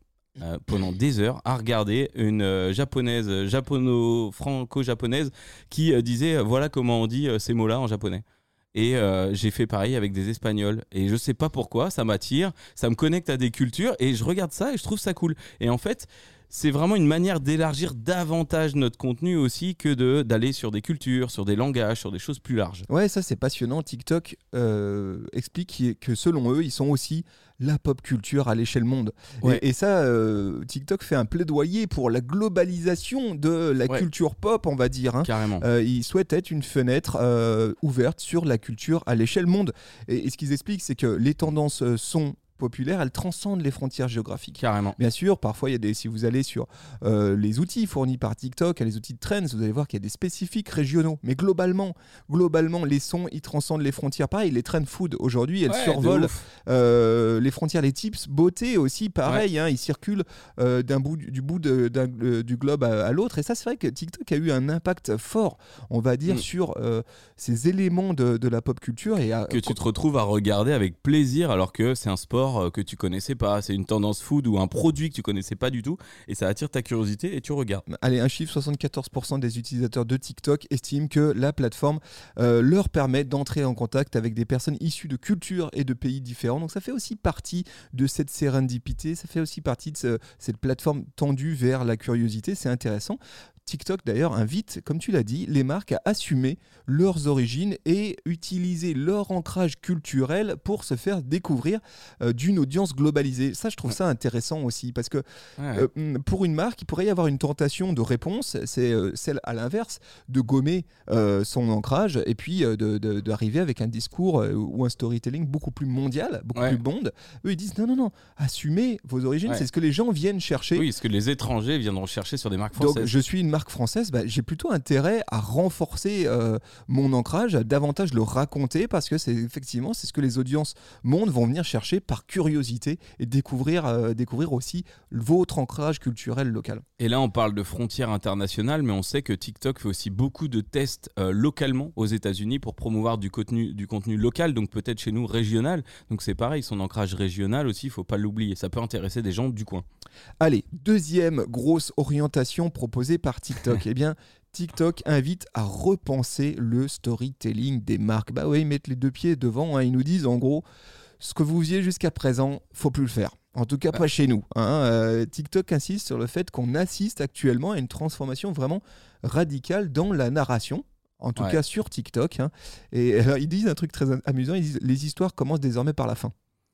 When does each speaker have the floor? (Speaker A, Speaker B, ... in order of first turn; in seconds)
Speaker A: 0.4-22.9, 35.2-35.6, 44.6-45.0, 55.7-56.4, 69.5-77.8, 105.6-105.9, 120.7-123.1, 137.0-149.8
Speaker B: 22.9-69.8, 77.9-120.9, 122.8-136.8, 150.4-160.6, 161.2-176.3